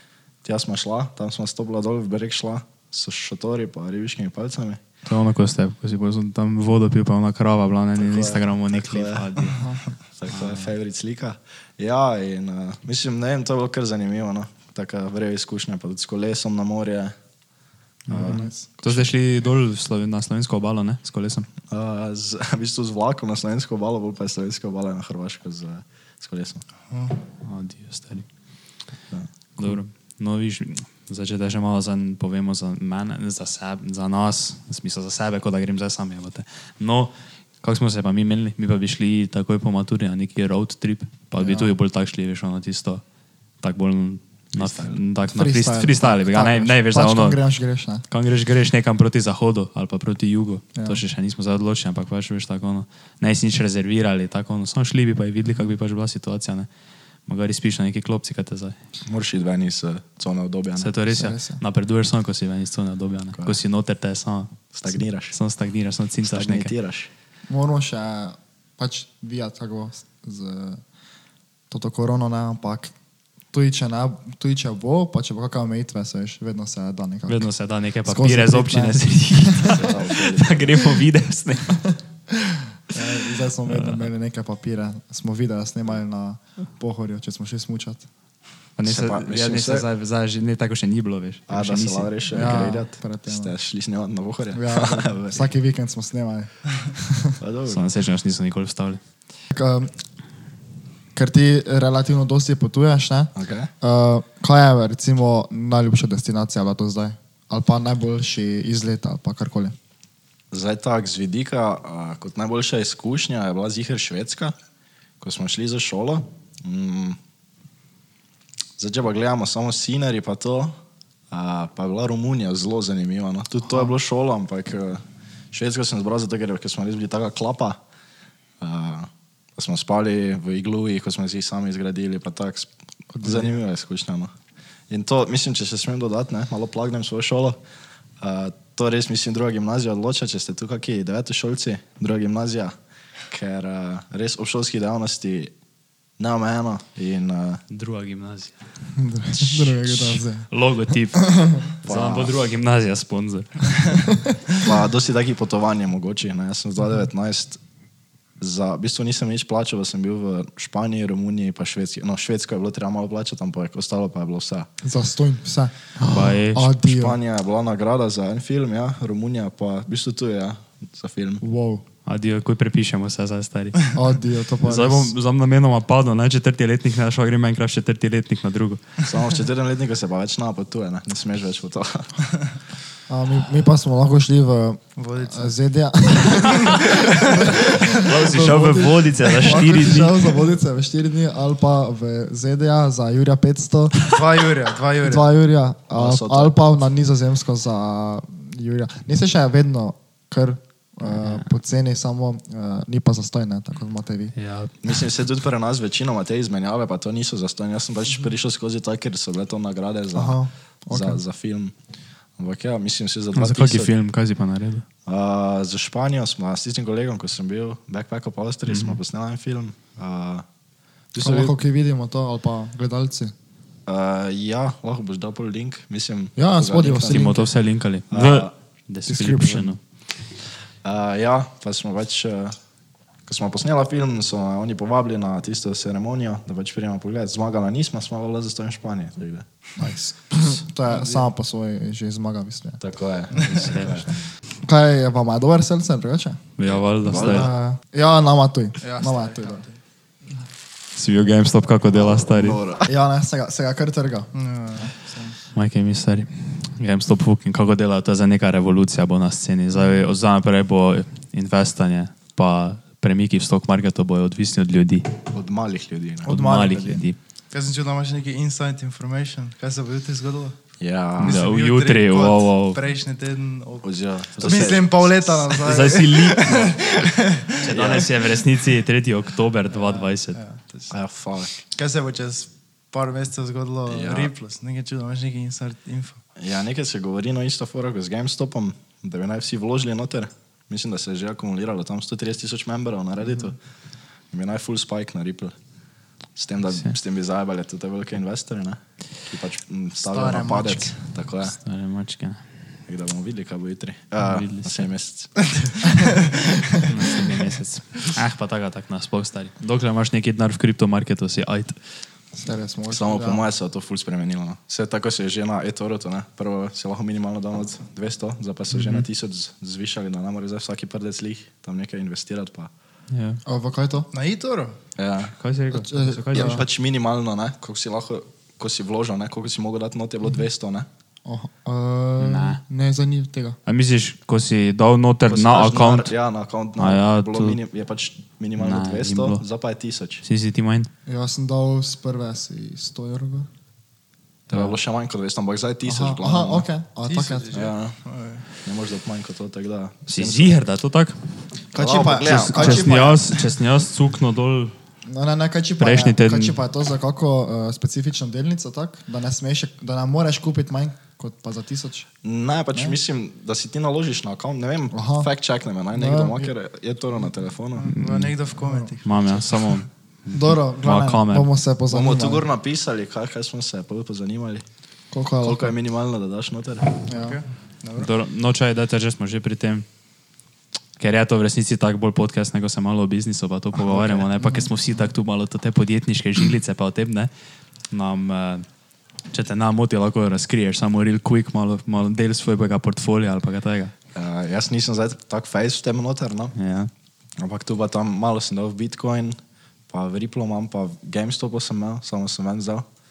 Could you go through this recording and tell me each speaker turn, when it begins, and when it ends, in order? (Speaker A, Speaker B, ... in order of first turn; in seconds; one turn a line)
Speaker A: 0.4-4.8
Speaker B: 5.0-9.6
Speaker A: 8.0-9.4
Speaker C: 9.5-9.8
Speaker A: 10.1-17.1
Speaker B: 10.3-10.7
Speaker B: 18.1-21.5
Speaker A: 18.1-19.1
Speaker C: 18.2-18.6
Speaker A: 21.7-26.6
Speaker D: 26.9-27.2
Speaker B: 27.4-28.2
Speaker A: 29.1-29.7
Speaker B: 29.6-43.0
Speaker C: 41.4-41.7
Speaker B: 43.6-47.4
Speaker A: 44.6-45.0
Speaker C: 45.3-48.0
Speaker B: 48.1-56.7
Speaker C: 50.8-51.0
Speaker B: 57.3-58.8
Speaker A: 59.1-60.9
Speaker B: 60.8-64.6
Speaker C: 61.1-61.6
Speaker A: 64.7-65.3
Speaker B: 65.3-66.7
Speaker A: 66.2-67.1
Speaker C: 67.5-70.8
Speaker C: 71.7-72.9
Speaker C: 73.5-77.5
Speaker B: 77.3-81.8
Speaker C: 78.0-79.8
Speaker A: 79.7-80.7
Speaker C: 81.9-88.0
Speaker B: 83.7-84.0
Speaker B: 88.8-92.7
Speaker A: 88.8-89.8
Speaker A: 91.5-95.4
Speaker C: 92.3-93.5
Speaker C: 94.5-97.3
Speaker A: 97.4-97.8
Speaker B: 97.7-99.0
Speaker C: 99.5-99.9
Speaker C: 101.1-109.7
Speaker A: 103.3-103.7
Speaker A: 110.5-114.5
Speaker A: 115.2-117.2
Speaker A: 118.8-120.7
Speaker A: 121.3-127.8
Speaker A: 128.6-132.7
Speaker C: 133.1-133.5
Speaker A: 133.2-134.3
Speaker A: 134.9-137.6
Speaker A: 138.2-142.7
Speaker A: 143.3-145.5
Speaker A: 146.2-147.6
Speaker B: 147.7-148.6
Speaker C: 148.9-150.5
Speaker B: 149.4-154.0
Speaker C: 151.1-151.7
Speaker A: 151.8-152.3
Speaker A: 154.6-157.6
Speaker A: 158.4-164.7
Speaker C: 164.8-167.2
Speaker B: 166.0-166.7
Speaker A: 166.7-171.4
Speaker C: 171.4-171.8
Speaker B: 172.1-174.0
Speaker C: 173.9-175.1
Speaker B: 174.6-178.8
Speaker A: 179.0-182.1
Speaker C: 183.1-194.1
Speaker D: 185.0-185.5
Speaker D: 186.7-187.4
Speaker B: 187.9-190.4
Speaker D: 194.0-195.3
Speaker C: 195.0-204.3
Speaker A: 195.9-196.6
Speaker B: 201.1-201.4
Speaker B: 204.3-204.9
Speaker A: 204.8-211.7
Speaker C: 210.1-211.2
Speaker A: 212.4-213.9
Speaker B: 213.3-214.8
Speaker A: 215.1-220.4
Speaker B: 218.7-219.0
Speaker A: 221.1-221.6
Speaker C: 221.2-223.3
Speaker A: 223.8-227.4
Speaker C: 226.3-227.5
Speaker B: 226.9-229.8
Speaker A: 228.1-228.5
Speaker C: 229.1-229.7
Speaker A: 230.8-232.6
Speaker A: 233.2-239.4
Speaker C: 239.8-242.8
Speaker A: 242.8-244.2
Speaker D: 243.4-243.7
Speaker B: 243.5-244.0
Speaker C: 244.6-246.4
Speaker B: 246.6-247.5
Speaker A: 246.7-247.5
Speaker C: 247.1-249.6
Speaker D: 248.8-249.7
Speaker B: 250.9-252.6
Speaker A: 251.9-252.9
Speaker C: 252.8-254.9
Speaker D: 254.3-255.3
Speaker B: 255.5-265.1
Speaker A: 265.3-266.3
Speaker C: 266.2-267.0
Speaker B: 266.3-267.2
Speaker D: 267.5-270.6
Speaker A: 270.8-271.4
Speaker B: 271.2-272.8
Speaker D: 271.2-278.1
Speaker A: 273.8-275.1
Speaker B: 274.4-274.7
Speaker B: 275.5-276.8
Speaker B: 277.6-280.4
Speaker A: 277.6-278.1
Speaker D: 279.7-280.9
Speaker A: 280.9-281.6
Speaker D: 281.7-286.2
Speaker A: 283.9-284.3
Speaker A: 286.4-293.6
Speaker A: 294.3-295.5
Speaker A: 296.4-301.6
Speaker C: 300.1-300.9
Speaker B: 301.6-302.4
Speaker A: 302.9-305.6
Speaker B: 304.2-304.9
Speaker D: 305.6-306.8
Speaker B: 306.8-311.8
Speaker C: 312.3-313.4
Speaker A: 312.9-322.7
Speaker B: 318.7-319.0
Speaker B: 323.1-323.4
Speaker C: 323.4-324.1
Speaker D: 324.1-324.8
Speaker A: 324.9-325.4
Speaker B: 325.4-326.6
Speaker C: 325.7-326.6
Speaker A: 326.3-330.9
Speaker C: 331.2-333.6
Speaker B: 332.2-332.6
Speaker B: 333.7-336.1
Speaker A: 335.2-340.2
Speaker B: 336.8-337.6
Speaker B: 338.6-339.4
Speaker B: 340.2-340.9
Speaker C: 341.1-343.5
Speaker A: 344.5-346.7
Speaker C: 345.8-347.6
Speaker D: 347.1-348.4
Speaker A: 347.5-348.0
Speaker A: 348.6-350.6
Speaker B: 350.1-351.2
Speaker A: 351.7-352.9
Speaker C: 351.7-353.4
Speaker B: 352.2-354.7
Speaker C: 355.1-362.1
Speaker B: 355.8-356.5
Speaker A: 362.2-367.9
Speaker C: 364.9-365.3
Speaker C: 365.9-366.5
Speaker D: 367.7-369.3
Speaker B: 367.9-368.3
Speaker C: 368.6-368.9
Speaker B: 369.0-371.5
Speaker C: 370.3-372.4
Speaker A: 371.9-374.6
Speaker C: 375.1-375.7
Speaker A: 375.4-377.0
Speaker C: 377.1-377.4
Speaker D: 377.1-378.1
Speaker B: 378.0-379.8
Speaker B: 381.0-387.3
Speaker A: 383.7-384.3
Speaker C: 384.4-384.7
Speaker B: 387.9-388.6
Speaker B: 389.3-393.9
Speaker A: 394.1-396.6
Speaker B: 396.6-396.9
Speaker A: 397.4-399.4
Speaker A: 399.9-402.9